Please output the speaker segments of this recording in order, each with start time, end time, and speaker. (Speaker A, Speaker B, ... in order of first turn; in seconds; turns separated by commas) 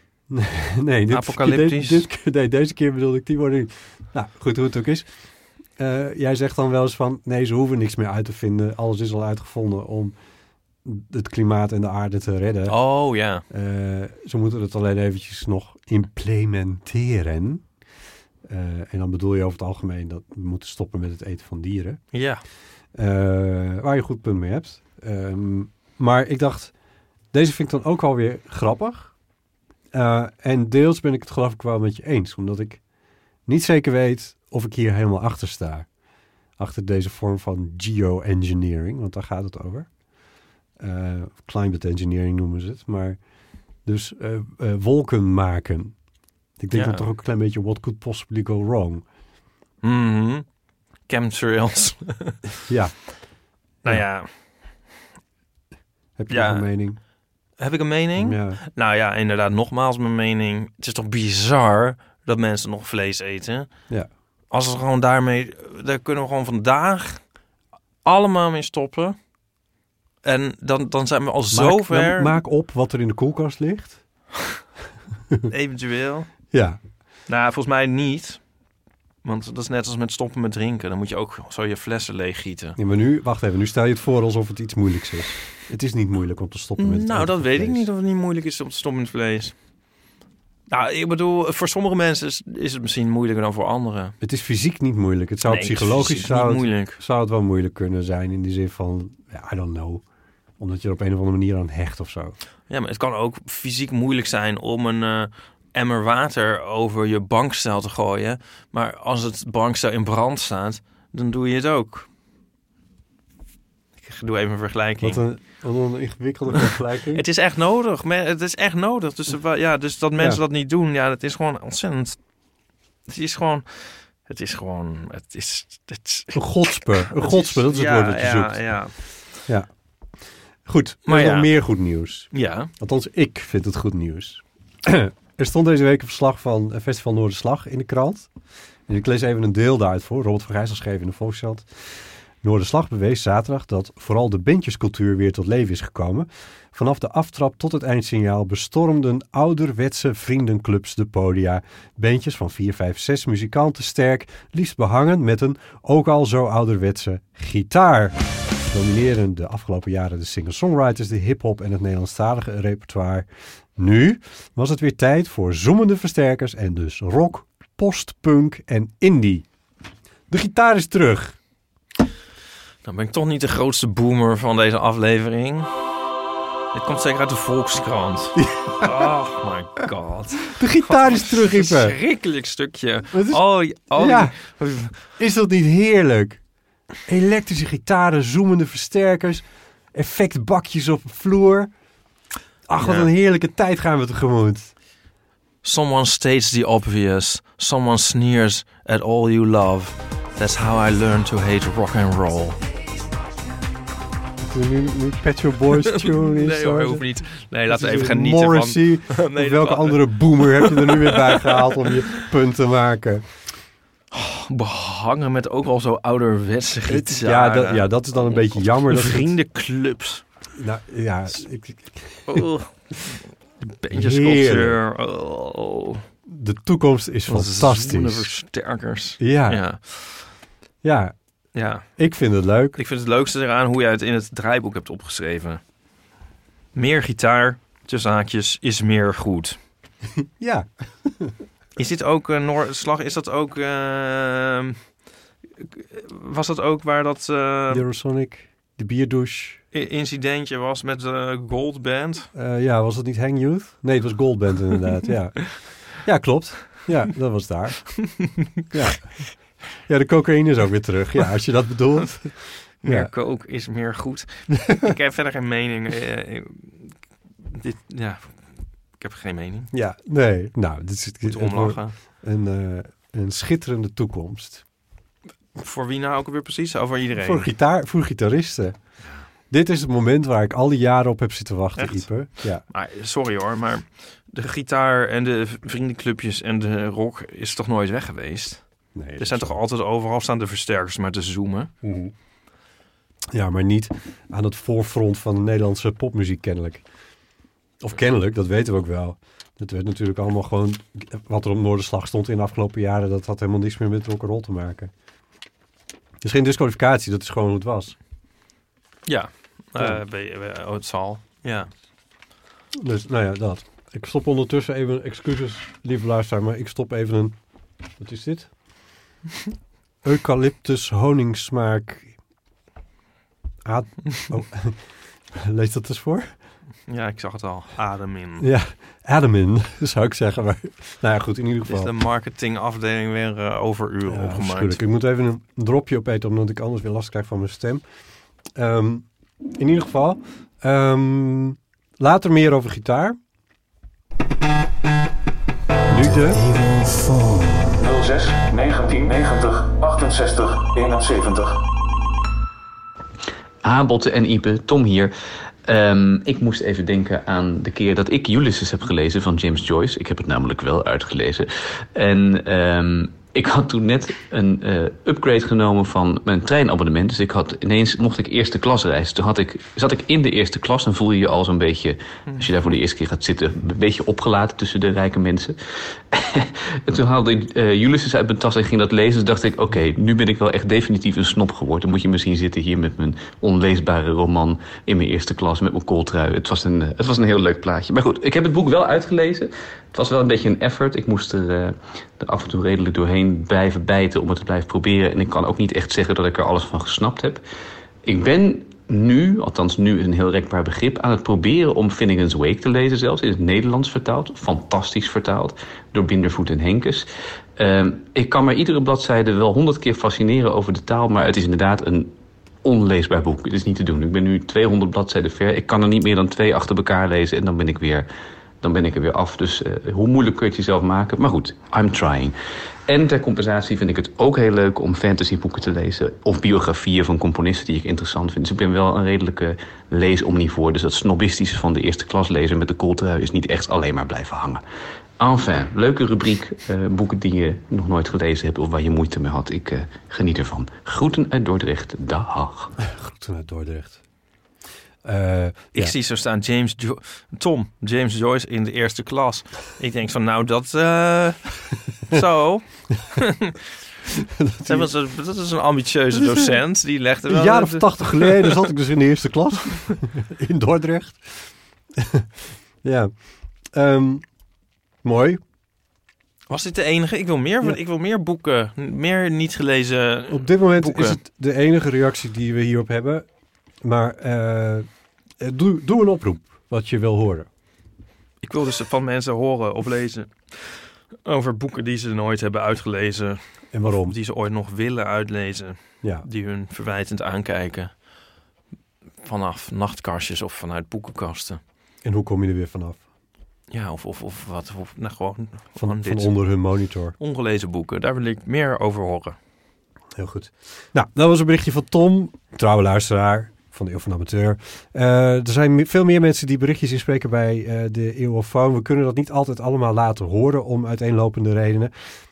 Speaker A: 0.3-5.1, Speaker B: 1.1-2.0, Speaker A: 5.8-10.1, Speaker A: 10.8-12.8, Speaker B: 12.7-13.4, Speaker A: 13.5-17.6, Speaker A: 18.4-22.0, Speaker B: 22.1-22.4, Speaker A: 22.9-26.7, Speaker A: 27.3-29.1, Speaker A: 29.9-32.8, Speaker A: 33.5-35.9, Speaker A: 36.6-39.9, Speaker A: 40.8-43.2, Speaker A: 43.8-46.0, Speaker A: 46.6-49.0, Speaker B: 46.7-47.0, Speaker B: 49.8-50.5, Speaker B: 51.1-52.4, Speaker A: 52.7-53.0, Speaker B: 53.8-54.3, Speaker A: 56.2-57.0, Speaker B: 56.3-56.6, Speaker B: 57.6-63.7, Speaker A: 58.2-58.6, Speaker B: 64.5-67.2, Speaker B: 68.0-69.2, Speaker B: 70.2-72.4, Speaker A: 71.5-74.0, Speaker B: 75.5-76.3, Speaker A: 76.5-76.8, Speaker B: 77.3-78.4, Speaker B: 79.2-82.8, Speaker A: 82.8-87.8, Speaker B: 86.8-89.5, Speaker B: 90.7-94.1, Speaker A: 94.2-100.0, Speaker B: 95.4-97.0, Speaker A: 100.6-102.4, Speaker B: 102.7-112.1, Speaker B: 114.0-115.2, Speaker A: 115.0-117.2, Speaker B: 117.1-122.2, Speaker B: 123.1-128.9, Speaker A: 126.3-128.6, Speaker A: 130.6-138.3, Speaker B: 131.1-131.5, Speaker B: 132.3-132.7, Speaker A: 138.9-141.7, Speaker A: 142.4-158.2, Speaker A: 158.7-163.3, Speaker A: 163.8-169.4, Speaker A: 170.3-171.4, Speaker B: 172.8-175.7, Speaker B: 176.7-185.0, Speaker A: 178.4-179.1, Speaker A: 180.5-181.9, Speaker A: 183.1-184.4, Speaker A: 185.0-186.4, Speaker A: 187.1-191.7, Speaker A: 192.7-194.7, Speaker B: 192.8-193.1, Speaker B: 195.6-202.6, Speaker A: 204.4-207.1, Speaker B: 205.8-211.9, Speaker A: 207.7-213.2, Speaker B: 214.1-220.2, Speaker A: 216.9-219.3, Speaker A: 220.6-222.4, Speaker B: 222.3-226.0, Speaker A: 223.9-224.8, Speaker A: 226.3-228.3, Speaker B: 227.3-230.3, Speaker A: 229.2-229.6, Speaker A: 230.8-231.1, Speaker B: 231.6-231.9, Speaker A: 232.0-232.8, Speaker B: 232.8-235.6, Speaker B: 236.7-239.6, Speaker A: 240.4-241.3, Speaker B: 241.8-244.8, Speaker B: 245.6-247.8, Speaker A: 247.7-249.6, Speaker B: 249.7-252.3, Speaker A: 252.3-263.1, Speaker B: 262.8-266.9, Speaker A: 264.6-264.9, Speaker B: 267.5-269.7, Speaker A: 269.7-274.6, Speaker B: 271.3-271.9, Speaker B: 275.6-277.5, Speaker A: 277.1-278.8, Speaker A: 279.5-282.6, Speaker B: 281.8-282.1, Speaker B: 282.7-288.6, Speaker A: 288.9-289.6, Speaker B: 289.2-291.7, Speaker A: 291.8-292.1, Speaker A: 293.3-296.8, Speaker A: 297.8-304.9, Speaker A: 306.2-307.9, Speaker B: 309.1-311.7, Speaker A: 312.8-317.4, Speaker A: 318.0-318.5, Speaker A: 320.0-322.1, Speaker A: 323.6-324.8, Speaker A: 325.3-326.3, Speaker B: 326.9-328.5, Speaker A: 328.4-331.9, Speaker B: 331.6-334.8, Speaker A: 334.1-337.8, Speaker A: 338.6-343.2, Speaker A: 345.9-346.4, Speaker B: 346.9-347.2, Speaker C: 347.7-351.6, Speaker D: 353.6-355.1, Speaker D: 355.6-375.6, Speaker D: 376.1-397.4, Speaker D: 398.1-418.1, Speaker D: 418.6-434.6, Speaker D: 435.2-442.7, Speaker A: 442.8-444.0, Speaker A: 445.0-445.9, Speaker B: 445.7-453.6, Speaker A: 454.1-454.9, Speaker B: 454.6-458.6, Speaker A: 457.3-461.2, Speaker A: 461.9-462.3, Speaker A: 462.8-463.1, Speaker A: 463.7-464.2, Speaker A: 465.0-465.4, Speaker B: 466.5-471.2, Speaker A: 470.3-473.3, Speaker A: 473.8-474.9, Speaker A: 475.4-477.5, Speaker B: 478.4-480.3, Speaker B: 481.2-487.9, Speaker A: 483.7-484.1, Speaker B: 489.2-491.6, Speaker A: 492.0-493.0, Speaker B: 493.7-496.3, Speaker A: 495.8-497.1, Speaker B: 497.2-499.4, Speaker A: 500.1-511.9